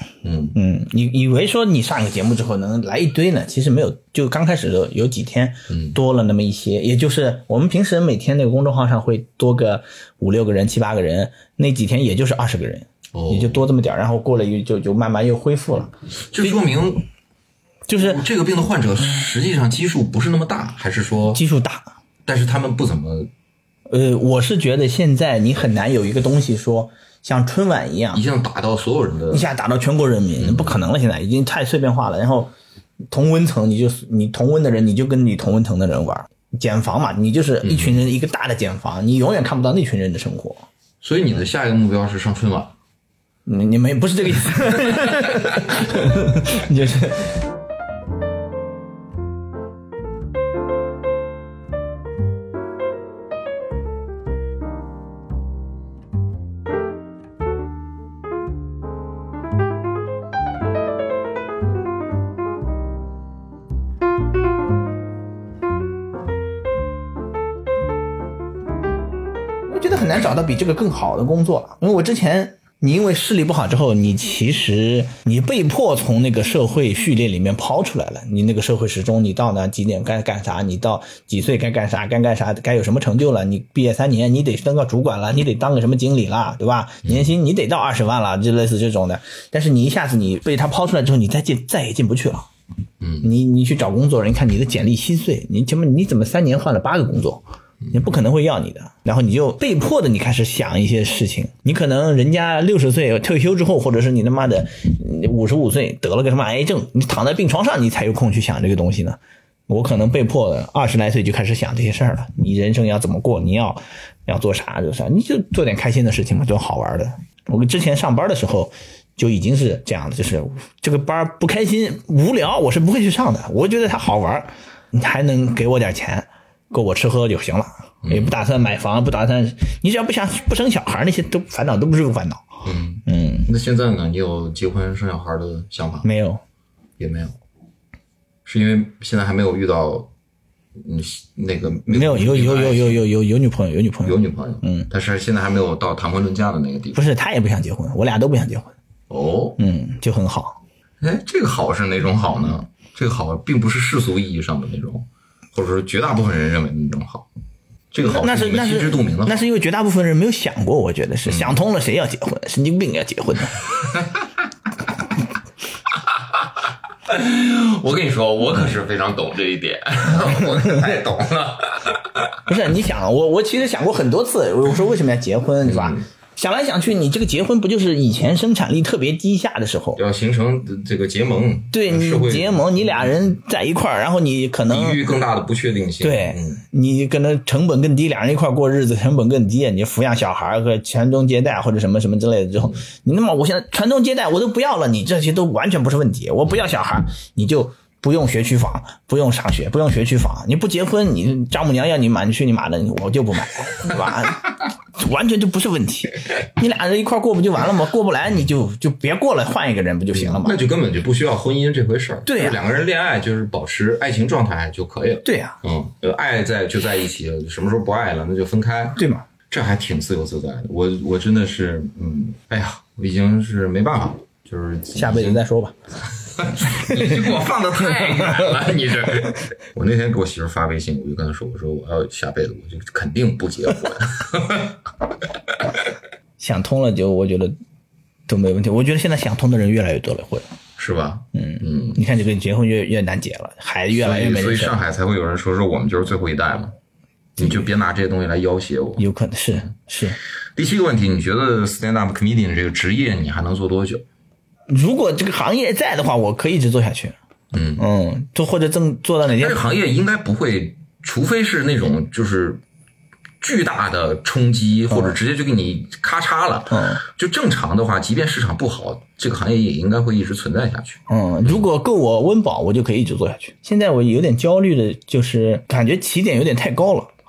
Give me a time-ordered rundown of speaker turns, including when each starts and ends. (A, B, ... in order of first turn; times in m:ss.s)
0:00.2-0:00.6 A
0:00.6-0:16.6 B
0:05.7-0:06.0 A
0:13.1-0:13.6 A
0:16.3-0:17.0 A
0:17.9-0:18.2 B
0:18.0-0:21.4 A
0:21.3-0:21.9 B
0:22.3-0:23.3 A
0:23.9-0:28.2 B
0:28.1-0:29.4 A
0:29.3-0:32.5 B
0:30.4-0:30.8 A
0:33.1-0:40.7 B
0:37.6-0:38.0 A
0:41.0-0:42.7 A
0:43.5-0:47.4 B
0:44.9-0:45.7 A
1:09.7-1:32.5 B
1:33.0-1:33.3 A
1:33.2-1:37.4 B
1:37.9-2:12.5 B
2:08.0-2:08.3 A
2:12.6-2:16.1 A
2:13.1-2:13.5 B
2:16.0-2:16.4 B
2:17.0-2:17.4 A
2:18.4-2:20.1 A
2:20.8-2:23.0 A
2:21.9-2:24.9 B
2:24.0-2:27.0 A
2:27.0-2:28.7 B
2:29.1-2:29.6 A
2:29.6-2:30.6 B
2:31.0-2:37.3 A
2:37.9-2:39.4 A
2:38.0-2:43.6 B
2:41.2-2:41.6 A
2:47.1-2:52.4 A
2:52.5-3:00.0 B
2:55.6-2:56.0 A
3:00.0-3:03.2 A
3:01.7-3:05.0 B
3:04.7-3:06.6 A
3:06.0-3:30.6 B
3:30.1-3:45.4 A
3:32.3-3:32.6 B
3:35.2-3:35.6 B
3:39.0-3:39.2 B
3:45.0-3:45.8 B
3:46.2-3:54.8 A
3:46.7-3:47.4 B
3:48.0-3:48.5 B
3:56.4-3:57.6 B
3:58.3-4:00.5 B
4:00.8-4:02.0 A
4:01.3-4:04.8 B
4:03.9-4:06.8 A
4:07.4-4:09.0 A
4:09.0-4:10.2 B
4:10.6-4:14.0 A
4:14.7-4:17.2 B
4:17.5-4:17.8 A
4:17.8-4:19.6 B
4:19.4-4:22.6 A
4:23.4-4:31.6 A
4:26.7-4:27.0 B
4:31.1-4:37.1 B